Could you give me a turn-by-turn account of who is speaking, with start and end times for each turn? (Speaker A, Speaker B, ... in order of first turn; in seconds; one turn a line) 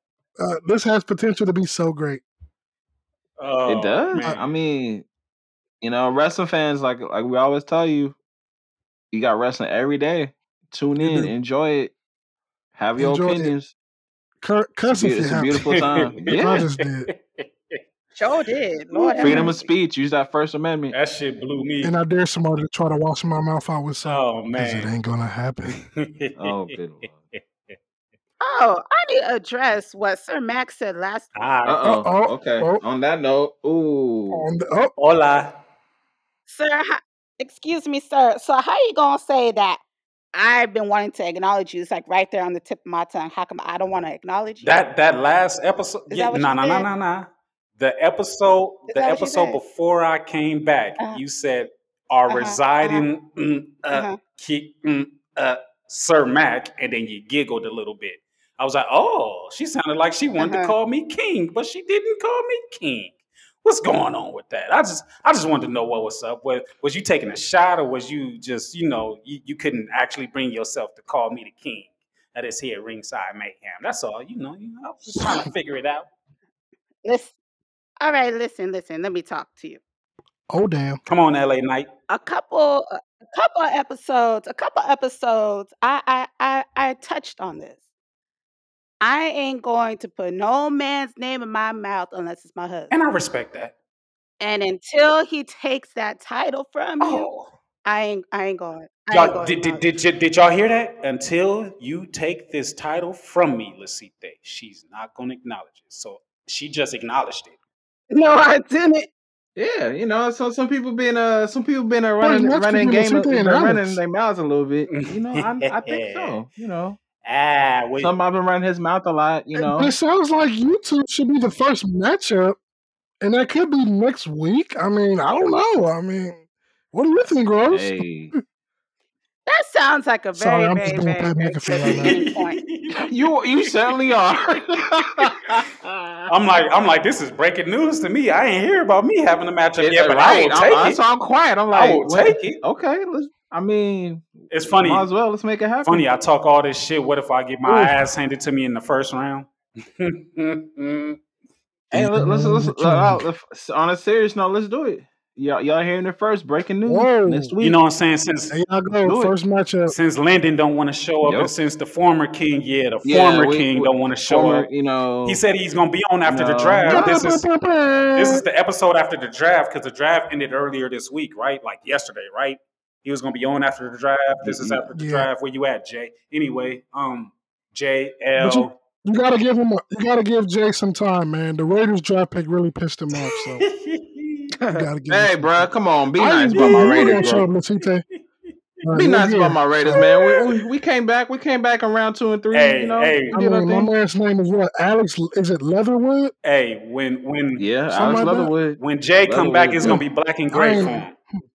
Speaker A: 0.4-2.2
Speaker B: 3.4-4.4
Speaker C: 3.7-5.0
Speaker C: 5.8-8.2
Speaker C: 9.1-11.9
Speaker A: 11.0-11.3
Speaker C: 12.7-13.7
Speaker A: 12.9-13.5
Speaker A: 14.4-15.6
Speaker C: 14.8-16.6
Speaker B: 15.6-17.8
Speaker A: 16.3-17.1
Speaker D: 18.1-19.7
Speaker B: 18.9-19.5
Speaker C: 19.2-20.9
Speaker B: 20.9-21.9
Speaker A: 21.8-25.8
Speaker B: 24.0-24.9
Speaker B: 25.7-26.7
Speaker C: 26.4-27.2
Speaker B: 27.3-27.7
Speaker D: 28.4-31.3
Speaker B: 31.3-31.8
Speaker C: 31.6-34.5
Speaker A: 31.8-32.8
Speaker A: 34.3-34.9
Speaker B: 35.0-35.6
Speaker D: 36.5-39.8
Speaker D: 40.3-44.8
Speaker B: 44.6-47.3
Speaker D: 46.1-46.9
Speaker B: 47.8-76.1
Speaker D: 48.9-49.6
Speaker D: 52.3-53.1
Speaker D: 53.9-54.2
Speaker D: 60.4-60.7
Speaker D: 77.0-77.3
Speaker D: 78.0-79.8
Speaker A: 80.5-81.0
Speaker B: 81.0-81.9
Speaker D: 82.1-87.8
Speaker D: 89.0-92.9
Speaker B: 92.9-93.7
Speaker D: 94.4-97.3
Speaker B: 97.0-97.5
Speaker D: 97.8-99.8
Speaker B: 99.1-107.6
Speaker D: 108.1-109.1
Speaker C: 109.5-117.0
Speaker A: 112.2-114.0
Speaker B: 114.9-116.4
Speaker B: 117.2-118.1
Speaker C: 118.0-119.9
Speaker A: 119.7-122.6
Speaker A: 123.2-128.4
Speaker C: 127.7-128.3
Speaker D: 129.5-132.6
Speaker A: 130.3-132.2
Speaker B: 131.8-134.1
Speaker C: 132.9-136.3
Speaker B: 136.3-141.0
Speaker C: 139.8-146.0
Speaker B: 141.7-142.6
Speaker B: 144.5-145.1
Speaker B: 145.8-151.2
Speaker A: 147.7-148.1
Speaker C: 151.9-157.8
Speaker A: 151.9-153.2
Speaker A: 156.8-157.5
Speaker B: 157.6-158.5
Speaker A: 158.5-159.9
Speaker C: 159.0-159.3
Speaker B: 159.9-164.7
Speaker C: 161.2-161.5
Speaker C: 163.0-165.4
Speaker B: 165.2-167.4
Speaker C: 166.3-167.2
Speaker A: 166.9-168.4
Speaker B: 168.1-178.7
Speaker C: 174.4-174.9
Speaker A: 174.9-175.3
Speaker A: 178.4-183.6
Speaker B: 183.2-184.5
Speaker D: 184.6-184.9
Speaker A: 184.7-188.0
Speaker C: 185.1-187.5
Speaker B: 186.5-187.5
Speaker A: 188.8-190.5
Speaker C: 188.9-193.9
Speaker B: 189.9-190.4
Speaker B: 192.5-193.4
Speaker A: 193.3-196.3
Speaker B: 196.4-197.7
Speaker C: 197.6-200.0
Speaker A: 197.9-198.5
Speaker B: 198.8-201.1
Speaker A: 199.8-201.1